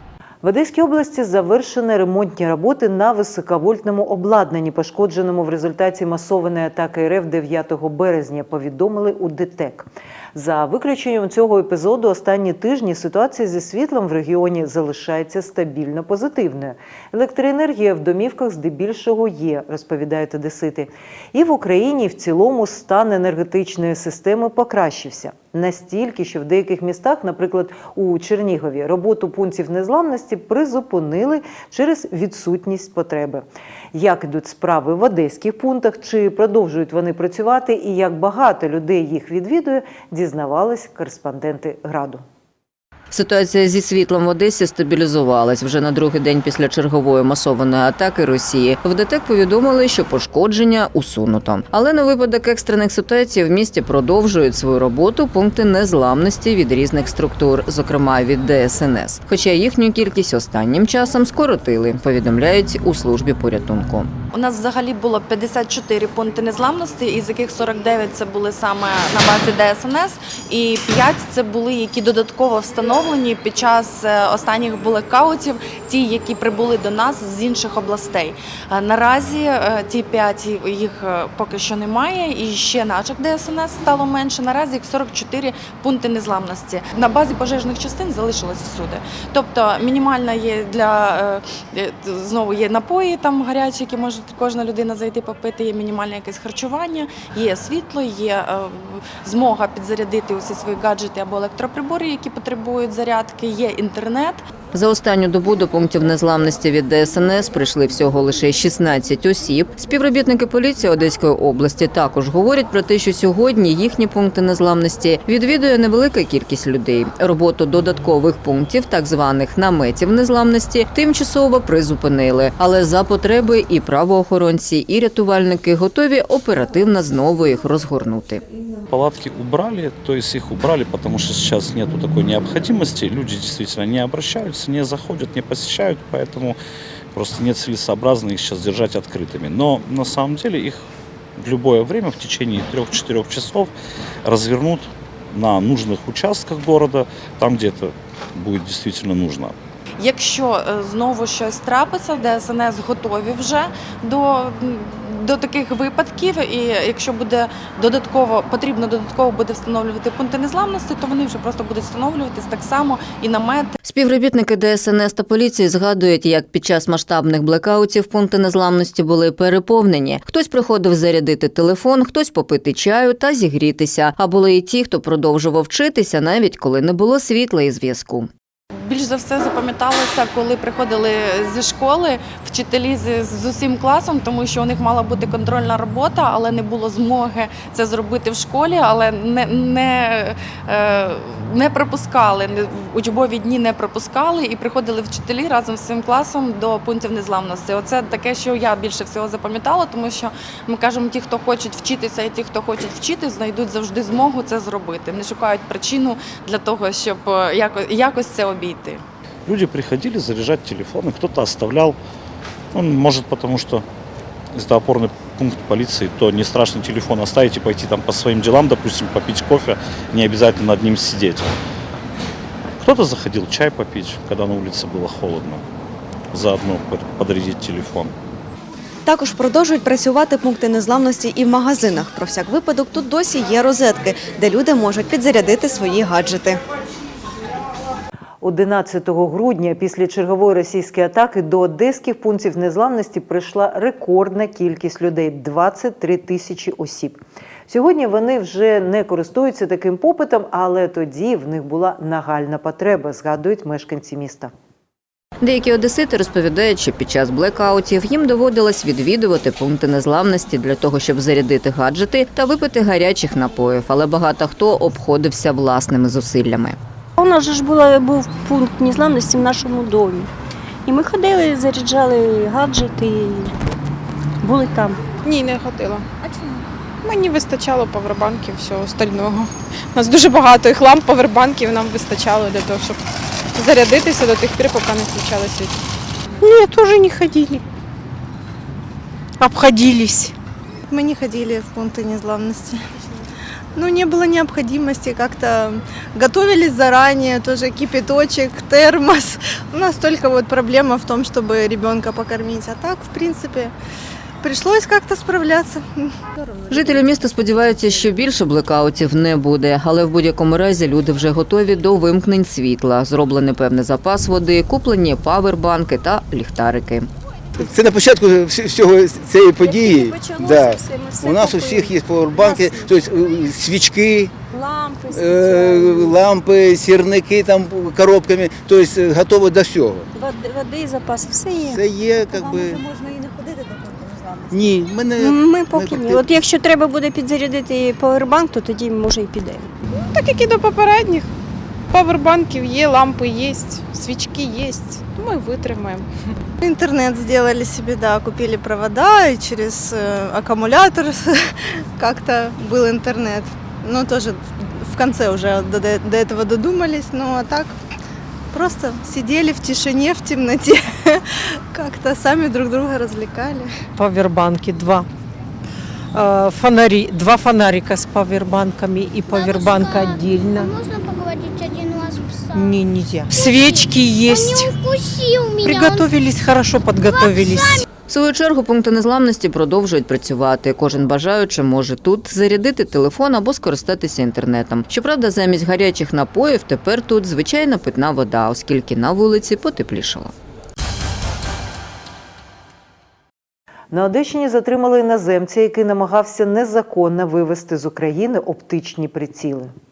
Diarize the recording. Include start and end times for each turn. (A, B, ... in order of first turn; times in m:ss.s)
0:00.4-0:42.2 A
0:43.1-1:04.1 B
1:04.3-1:44.4 C
1:44.7-2:08.4 B
2:08.9-2:16.6 D
2:17.1-2:20.8 D
2:21.4-2:23.7 D
2:24.2-2:29.5 D
2:30.0-2:43.7 C
2:43.8-2:58.3 B
2:58.8-3:29.0 C
3:29.5-3:32.0 D
3:32.7-3:33.8 D
3:34.5-3:41.5 D
3:42.8-3:45.6 D
3:46.3-3:48.1 D
3:49.0-3:56.6 E
3:58.4-4:14.5 A
4:15.4-4:26.8 B
4:27.2-4:30.3 F
4:30.8-4:33.5 F
4:34.4-4:35.0 F
4:35.2-4:36.0 G
4:37.0-4:43.0 G
4:43.5-4:45.8 G
4:46.4-4:47.6 G
4:49.4-4:50.3 G
4:50.9-4:52.8 H
4:53.8-5:03.7 H
5:04.4-5:06.1 H
5:06.7-5:17.1 B
5:17.6-5:24.4 I
5:19.6-5:22.9 F
5:24.5-5:26.2 F
5:25.1-5:30.1 I
5:30.1-5:31.8 F
5:31.7-5:32.8 I
5:34.5-5:36.2 I
5:35.2-5:39.7 F
5:39.9-5:41.3 G
5:41.9-5:46.1 G
5:46.6-5:57.8 H
5:58.5-6:03.9 H
6:04.0-6:05.1 J
6:06.1-6:10.7 J
6:09.3-6:12.8 K
6:12.5-6:14.7 J
6:13.3-6:16.2 K
6:15.6-6:17.7 J
6:17.0-6:17.8 K
6:18.1-6:30.3 B
6:33.9-6:39.7 A